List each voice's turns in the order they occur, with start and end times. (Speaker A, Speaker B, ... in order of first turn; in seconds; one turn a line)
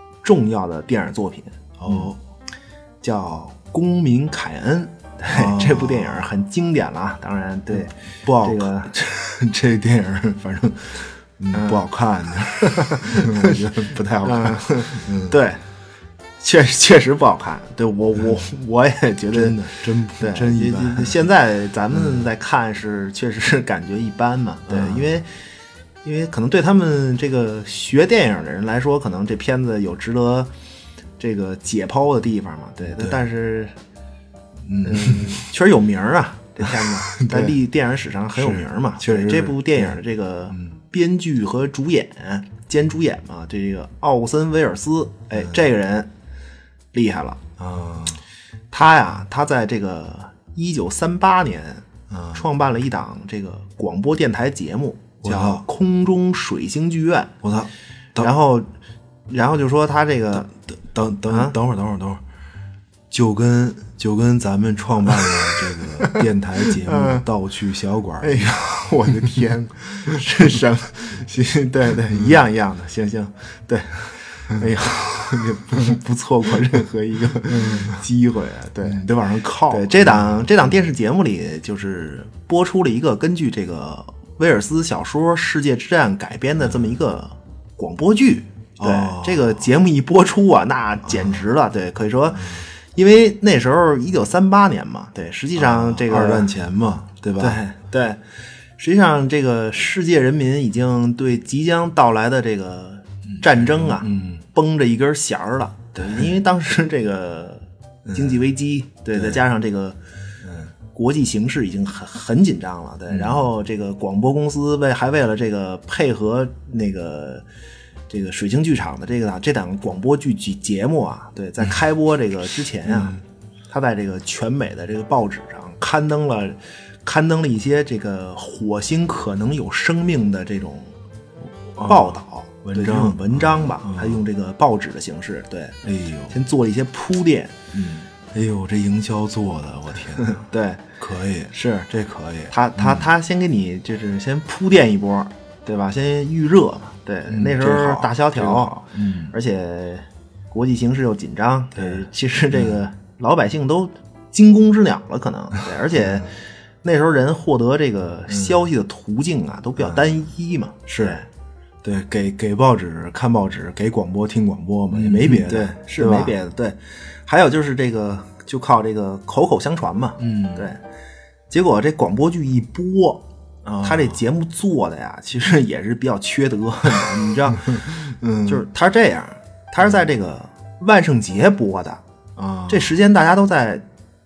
Speaker A: 0.2-2.1
Speaker B: 1.8-2.2
Speaker A: 3.0-8.9
Speaker B: 5.3-6.3
Speaker B: 7.7-15.4
Speaker A: 11.5-11.9
Speaker A: 12.7-15.6
Speaker A: 16.4-25.4
Speaker B: 19.3-21.3
Speaker B: 21.9-22.3
Speaker B: 24.7-25.2
Speaker A: 26.0-30.5
Speaker A: 31.2-33.7
Speaker B: 34.6-35.4
Speaker A: 34.8-46.1
Speaker B: 36.8-37.6
Speaker B: 38.3-40.0
Speaker A: 46.9-47.4
Speaker B: 47.6-48.2
Speaker A: 48.7-57.4
Speaker B: 52.1-52.4
Speaker B: 55.2-55.6
Speaker B: 57.4-58.3
Speaker A: 58.2-58.7
Speaker A: 59.3-60.5
Speaker B: 60.5-62.2
Speaker A: 61.3-61.5
Speaker B: 63.1-69.4
Speaker A: 66.8-67.2
Speaker A: 68.2-96.5
Speaker B: 77.5-78.0
Speaker B: 78.8-80.7
Speaker B: 88.8-89.6
Speaker B: 92.3-92.6
Speaker B: 95.5-97.6
Speaker A: 97.4-98.2
Speaker A: 98.8-110.0
Speaker B: 103.3-104.4
Speaker B: 106.0-106.3
Speaker B: 108.1-108.4
Speaker B: 109.1-109.4
Speaker B: 110.4-110.7
Speaker A: 110.9-117.4
Speaker B: 113.1-113.5
Speaker A: 118.1-123.2
Speaker B: 122.8-123.2
Speaker A: 123.7-130.9
Speaker B: 131.8-134.2
Speaker A: 131.8-135.8
Speaker B: 135.8-136.4
Speaker A: 136.3-137.6
Speaker B: 137.7-140.4
Speaker A: 140.2-140.8
Speaker B: 141.0-143.1
Speaker A: 141.5-141.9
Speaker A: 142.5-156.3
Speaker B: 147.3-149.3
Speaker B: 151.8-152.8
Speaker B: 155.9-156.2
Speaker A: 156.8-161.2
Speaker B: 158.3-158.7
Speaker B: 159.8-160.2
Speaker B: 160.9-161.2
Speaker B: 161.8-166.3
Speaker A: 163.2-170.8
Speaker B: 170.2-170.7
Speaker A: 171.5-177.8
Speaker B: 173.7-174.2
Speaker B: 177.7-178.6
Speaker A: 178.4-182.0
Speaker B: 182.4-182.9
Speaker A: 182.7-183.8